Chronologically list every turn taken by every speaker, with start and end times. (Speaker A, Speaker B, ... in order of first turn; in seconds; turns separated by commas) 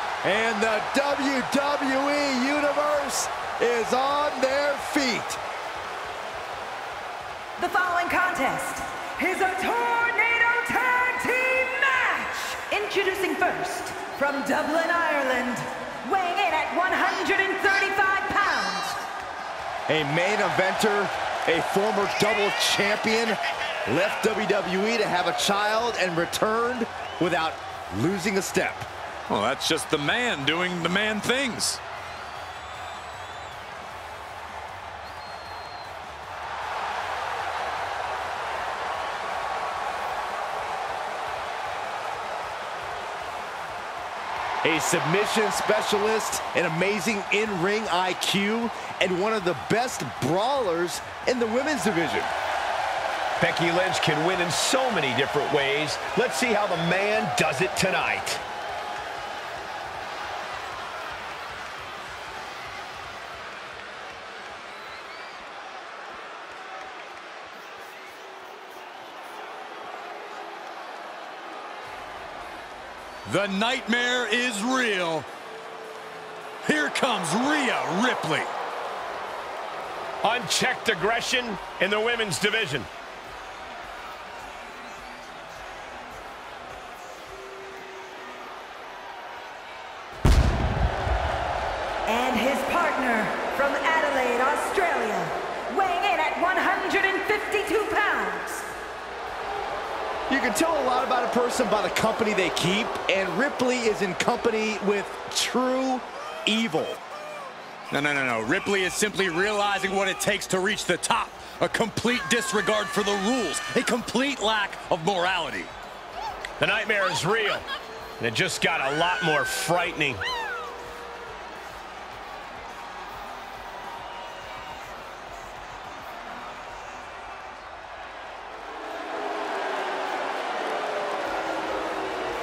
Speaker A: 0.2-5.4, Speaker B: 7.6-19.0, Speaker A: 19.9-28.9, Speaker C: 29.3-31.8, Speaker A: 44.6-52.3, Speaker D: 53.4-58.4, Speaker C: 73.3-75.3, Speaker C: 76.6-78.5, Speaker D: 80.2-82.9, Speaker B: 92.1-98.7, Speaker A: 100.3-107.0, Speaker C: 107.9-115.7, Speaker D: 116.6-117.7, Speaker D: 118.2-120.2